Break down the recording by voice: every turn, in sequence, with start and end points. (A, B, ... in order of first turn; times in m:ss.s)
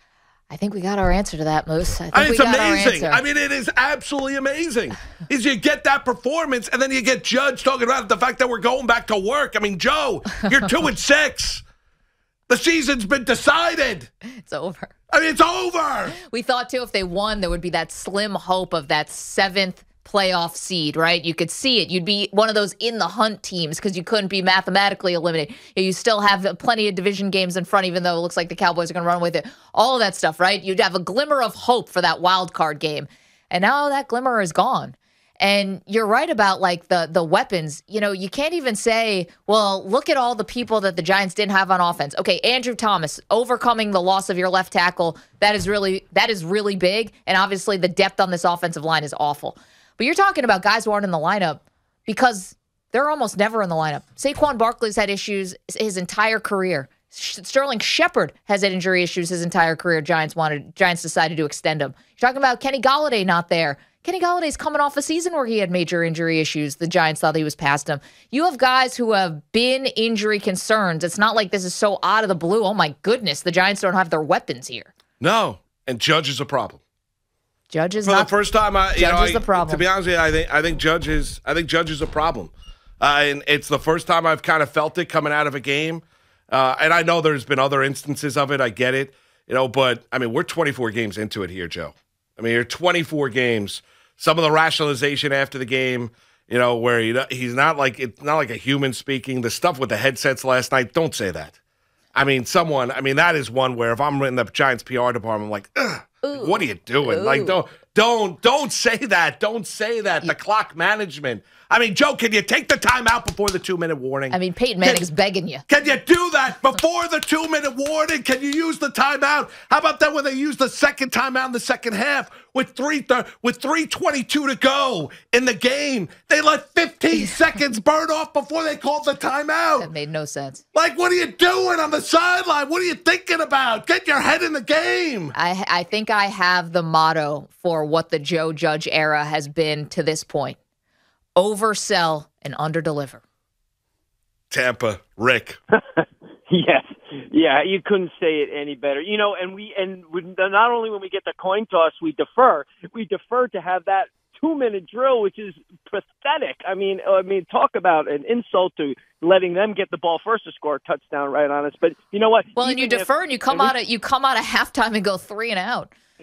0:00.5-0:03.2 A
0:02.1-0:11.6 B
0:12.5-0:14.1 B
0:14.3-0:14.9 A
0:15.1-0:16.2 B
0:16.1-1:14.9 A
1:15.2-1:16.8 B
1:17.7-1:18.3 A
1:18.0-1:41.6 B
1:18.9-1:19.9 A
1:42.1-1:55.0 B
1:46.2-1:47.6 A
1:54.3-1:55.6 A
1:55.7-2:09.9 B
2:09.8-2:10.6 A
2:10.7-2:15.3 B
2:15.3-2:20.6 A
2:21.4-2:23.2 A
2:24.5-2:25.6 B
2:26.0-2:43.7 C
2:42.6-2:45.9 A